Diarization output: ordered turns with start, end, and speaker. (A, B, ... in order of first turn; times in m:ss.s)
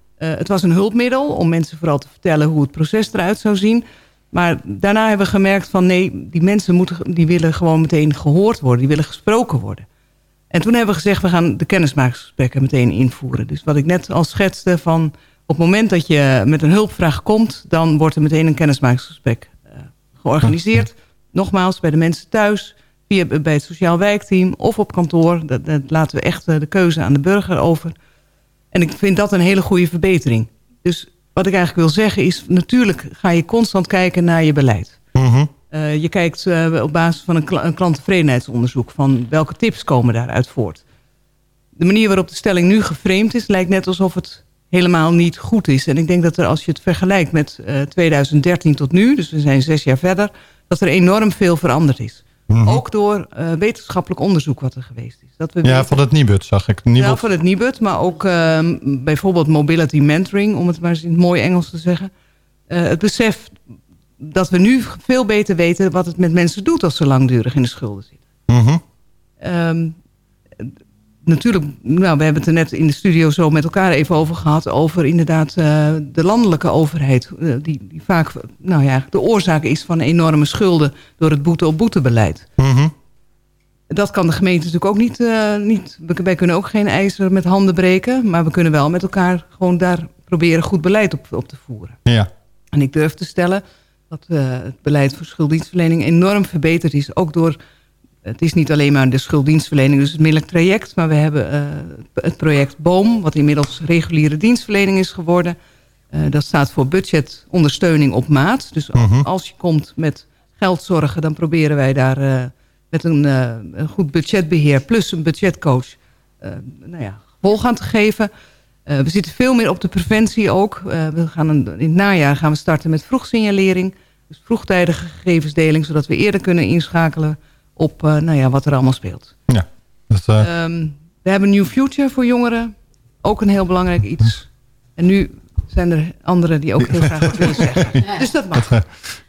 0:00.2-0:09.8 A
0:10.5-0:27.9 A
0:28.7-0:35.0 A
0:35.1-0:35.5 B
0:35.7-0:40.8 A
0:41.8-0:56.0 A
0:52.5-0:52.8 B
0:55.6-0:57.2 B
0:57.0-1:02.1 A
1:02.7-1:03.6 A
1:04.2-1:08.2 A
1:08.5-1:08.8 B
1:09.4-1:10.0 A
1:11.2-1:22.4 A
1:22.6-1:22.9 B
1:23.9-1:32.0 A
1:32.7-1:37.6 A
1:38.2-1:45.6 A
1:46.1-1:58.3 A
1:48.9-1:49.2 B
1:58.8-2:09.3 A
2:09.5-2:10.5 B
2:10.4-2:18.7 A
2:17.2-2:18.0 B
2:18.6-2:18.8 B